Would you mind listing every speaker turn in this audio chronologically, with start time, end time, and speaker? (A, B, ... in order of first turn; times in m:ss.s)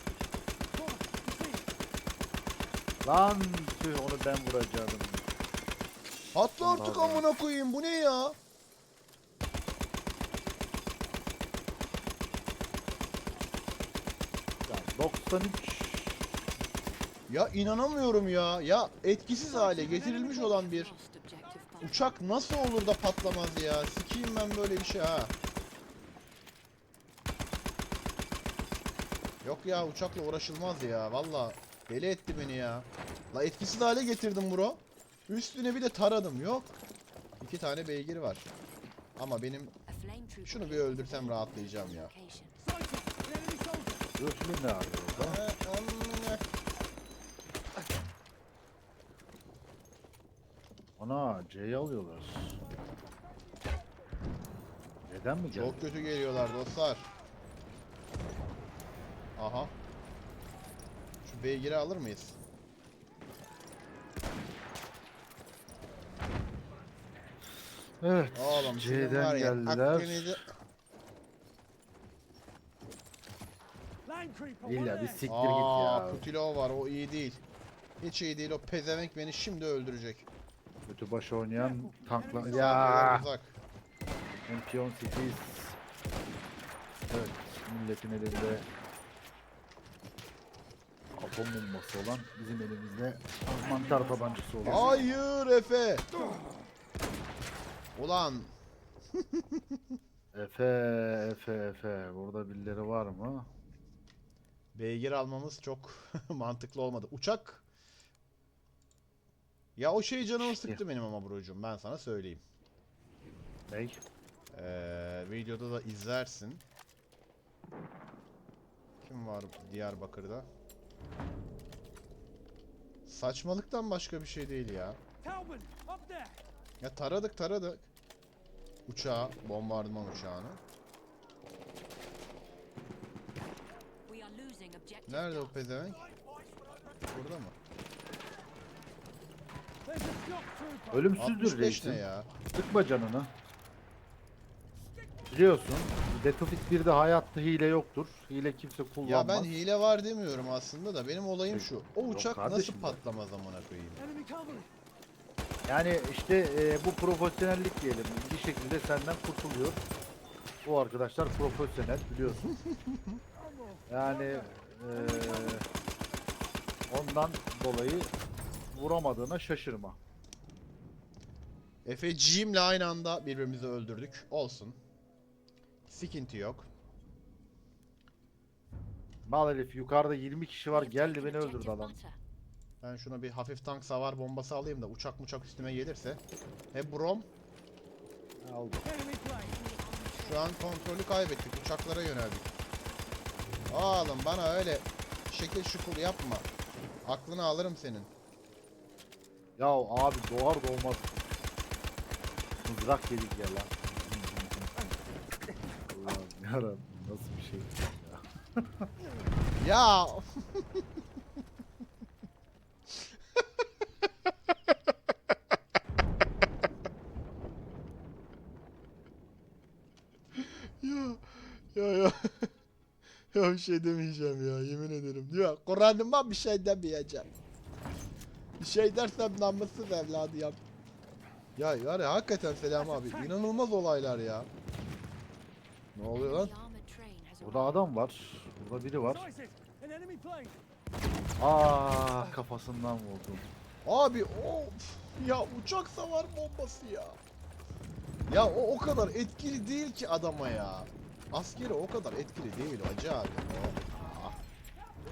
0:00.7-0:01.7 A
0:03.0-0:05.2 B
0:06.3-0:08.4 C
0:06.6-0:07.3 B
0:14.7-0:16.4 B
0:17.3-0:20.9 C
0:19.4-0:22.1 D
0:21.8-0:25.3 C
0:29.4-0:36.7 C
0:37.4-0:38.5 C
0:39.2-0:39.8 C
0:39.9-0:42.6 D
0:40.4-0:42.1 C
0:42.6-0:44.1 A
0:44.2-0:45.4 B
0:45.2-0:46.4 C
0:51.0-0:52.6 B
0:55.1-0:55.8 B
0:55.5-0:57.1 C
0:59.4-0:59.7 C
1:01.2-1:02.4 C
1:08.0-1:10.4 B
1:08.3-1:10.4 C
1:14.0-1:15.3 A
1:14.6-1:16.2 B
1:15.3-1:17.4 C
1:18.0-1:20.3 C
1:20.9-1:23.3 B
1:21.6-1:23.0 A
1:22.4-1:23.6 C
1:24.5-1:25.8 B
1:27.1-1:28.7 B
1:31.1-1:35.0 B
1:33.5-1:35.1 A
1:34.6-1:36.1 C
1:37.9-1:38.5 C
1:39.2-1:39.8 C
1:40.3-1:43.5 B
1:44.7-1:47.6 C
1:49.8-1:52.4 C
1:50.4-1:50.8 B
1:53.7-1:54.0 B
1:54.5-1:56.6 C
1:59.0-2:00.5 C
2:03.0-2:05.0 C
2:05.2-2:06.4 A
2:06.8-2:07.9 C
2:08.9-2:10.6 C
2:14.0-2:15.5 D
2:15.1-2:16.0 C
2:17.1-2:17.5 C
2:19.8-2:21.1 A
2:20.9-2:23.3 B
2:21.2-2:22.3 C
2:25.3-2:29.5 B
2:29.0-2:34.0 C
2:31.5-2:33.0 B
2:34.0-2:34.7 A
2:35.7-2:39.8 B
2:40.6-2:42.5 B
2:42.4-2:43.2 C
2:43.4-2:45.6 A
2:43.9-2:45.6 B
2:46.9-2:48.1 B
2:48.7-2:50.0 B
2:51.8-2:54.8 C
2:55.9-2:56.7 C
2:59.2-3:01.9 B
3:00.7-3:02.2 D
3:02.8-3:06.2 C
3:06.7-3:07.3 C
3:08.4-3:08.9 B
3:08.8-3:09.6 A
3:09.4-3:10.9 D
3:10.2-3:12.5 C
3:13.7-3:16.5 C
3:17.0-3:18.1 C
3:19.6-3:21.1 B
3:22.6-3:24.9 B
3:25.9-3:28.9 B
3:29.6-3:30.8 C
3:40.3-3:42.5 C
3:43.3-3:47.3 C
3:48.6-3:50.6 C
3:51.6-3:54.5 C
3:52.8-3:53.4 A
3:55.9-3:56.5 C
3:56.1-3:57.8 D
3:57.4-3:59.3 B
3:59.1-4:00.6 A
4:01.4-4:03.5 B
4:03.8-4:07.2 C
4:08.3-4:14.4 C